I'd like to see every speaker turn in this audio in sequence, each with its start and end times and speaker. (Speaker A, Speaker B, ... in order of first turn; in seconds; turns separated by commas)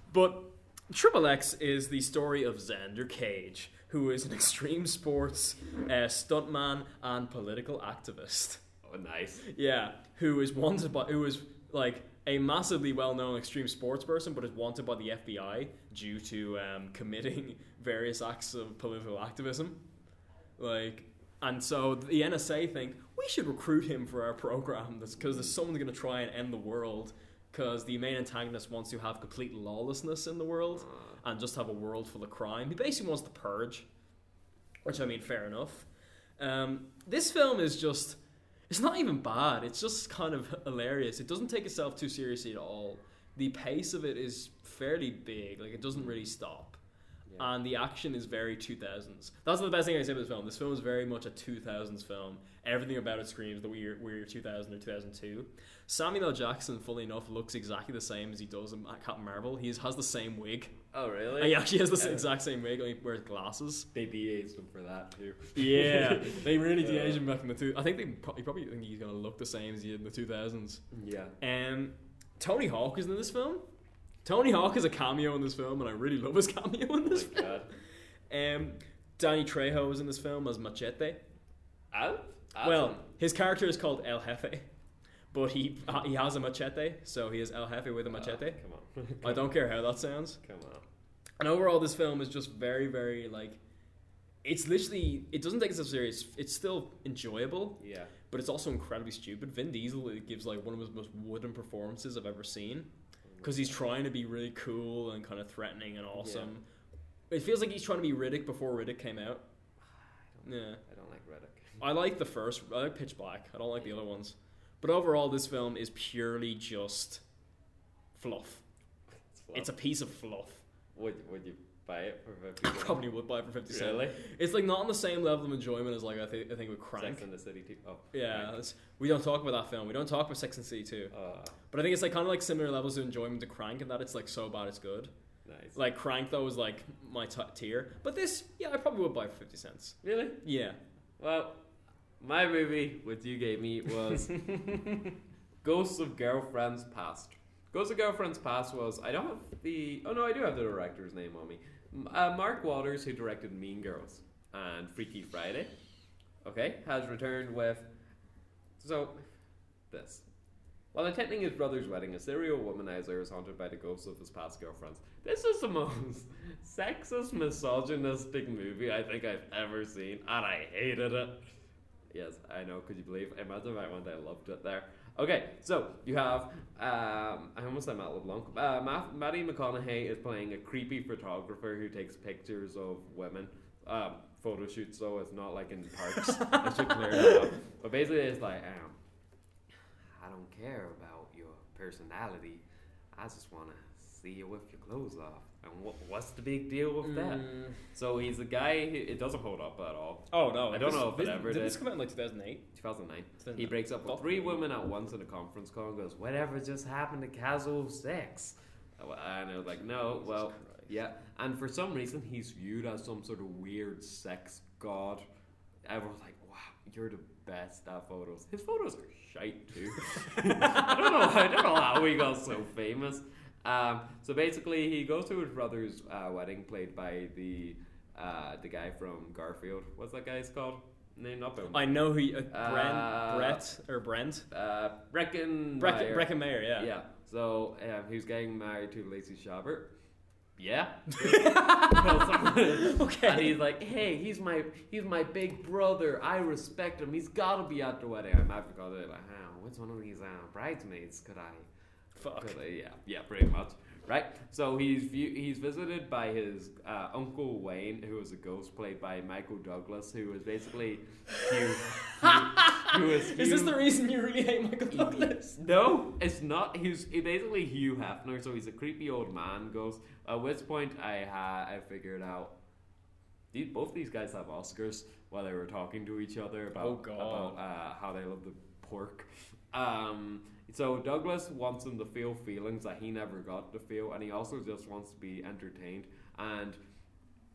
Speaker A: 0.1-8.6, Speaker B: 8.8-9.5, Speaker A: 9.4-19.8, Speaker A: 20.6-33.9, Speaker B: 25.2-25.5, Speaker B: 30.8-31.2, Speaker A: 34.9-35.9, Speaker A: 36.4-38.2, Speaker A: 38.7-46.8, Speaker B: 47.3-47.5, Speaker A: 47.4-60.8, Speaker B: 60.9-62.3, Speaker A: 61.4-63.9, Speaker B: 63.9-67.2, Speaker A: 65.6-70.8, Speaker B: 70.9-71.3, Speaker A: 71.4-73.6, Speaker A: 74.2-77.5, Speaker B: 77.1-77.7, Speaker A: 78.3-81.2, Speaker B: 81.9-83.0, Speaker A: 82.6-84.7, Speaker A: 85.3-88.6, Speaker B: 88.1-89.6, Speaker A: 89.2-90.4, Speaker B: 90.4-90.8, Speaker A: 91.4-93.6, Speaker A: 94.4-97.8, Speaker B: 97.8-98.1, Speaker A: 98.3-102.9, Speaker B: 103.3-103.8, Speaker A: 103.4-106.6, Speaker B: 106.2-106.5, Speaker A: 107.3-109.4, Speaker B: 109.9-111.8, Speaker A: 110.4-110.8, Speaker A: 111.8-117.2, Speaker A: 118.2-118.6, Speaker B: 119.3-119.7, Speaker A: 119.5-120.6, Speaker B: 121.0-123.0, Speaker A: 122.6-127.2, Speaker B: 123.7-124.2, Speaker B: 127.0-128.6, Speaker A: 128.1-131.1, Speaker B: 131.1-131.6, Speaker A: 131.7-135.1, Speaker B: 135.4-135.8, Speaker A: 135.8-140.8, Speaker B: 140.0-140.4, Speaker B: 141.2-141.6, Speaker B: 142.2-144.7, Speaker A: 144.5-144.8, Speaker B: 145.6-155.7, Speaker B: 156.4-157.9, Speaker B: 158.8-159.2, Speaker B: 159.9-160.2, Speaker B: 160.9-171.4, Speaker B: 172.1-189.0, Speaker A: 186.2-187.5, Speaker B: 190.2-201.8, Speaker A: 197.0-197.8, Speaker A: 200.3-202.7, Speaker B: 202.7-215.2, Speaker A: 203.4-204.6, Speaker A: 210.2-210.9, Speaker B: 215.9-233.6, Speaker A: 231.7-234.5, Speaker B: 234.5-239.9, Speaker A: 235.8-236.9, Speaker B: 240.6-263.8, Speaker A: 241.2-243.6, Speaker A: 252.2-252.6, Speaker A: 261.9-265.4, Speaker B: 264.9-272.6, Speaker B: 273.5-286.8, Speaker A: 276.7-277.6